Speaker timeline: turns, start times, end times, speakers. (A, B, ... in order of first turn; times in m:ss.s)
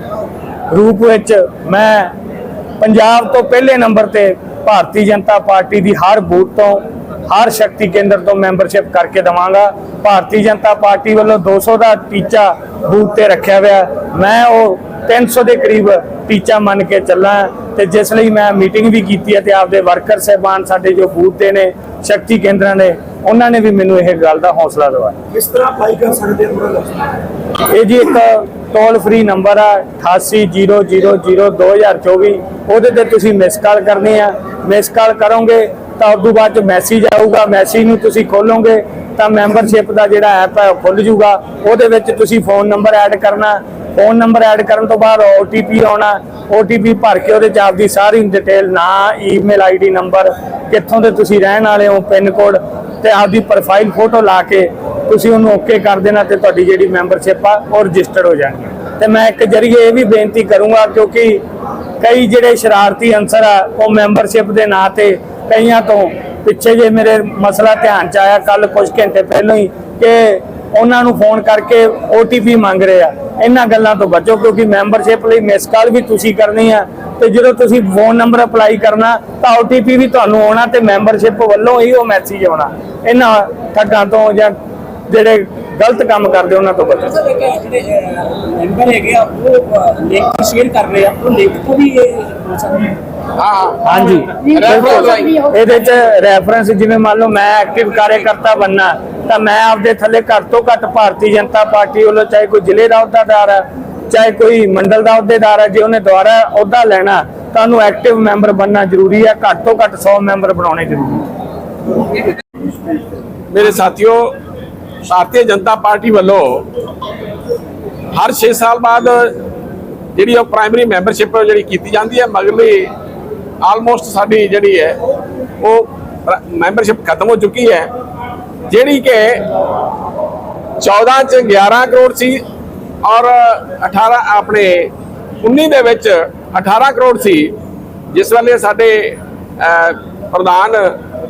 0:00.7-0:02.1 A
0:02.8-0:25.2 A
0:25.6-0:26.9 B
0:27.6-1:01.4 A
1:02.0-1:24.5 A
1:25.1-1:27.2 A
1:27.2-1:32.9 B
1:33.3-1:35.4 C
1:33.8-1:51.3 A
1:53.5-1:54.3 C
1:55.1-1:56.7 C
1:58.1-1:59.4 C
2:00.1-2:02.9 C
2:03.6-2:05.0 C
2:05.6-2:07.9 C
2:08.7-2:09.5 C
2:10.8-2:12.4 C
2:13.0-2:14.9 C
2:15.4-2:17.5 C
2:18.1-2:20.9 C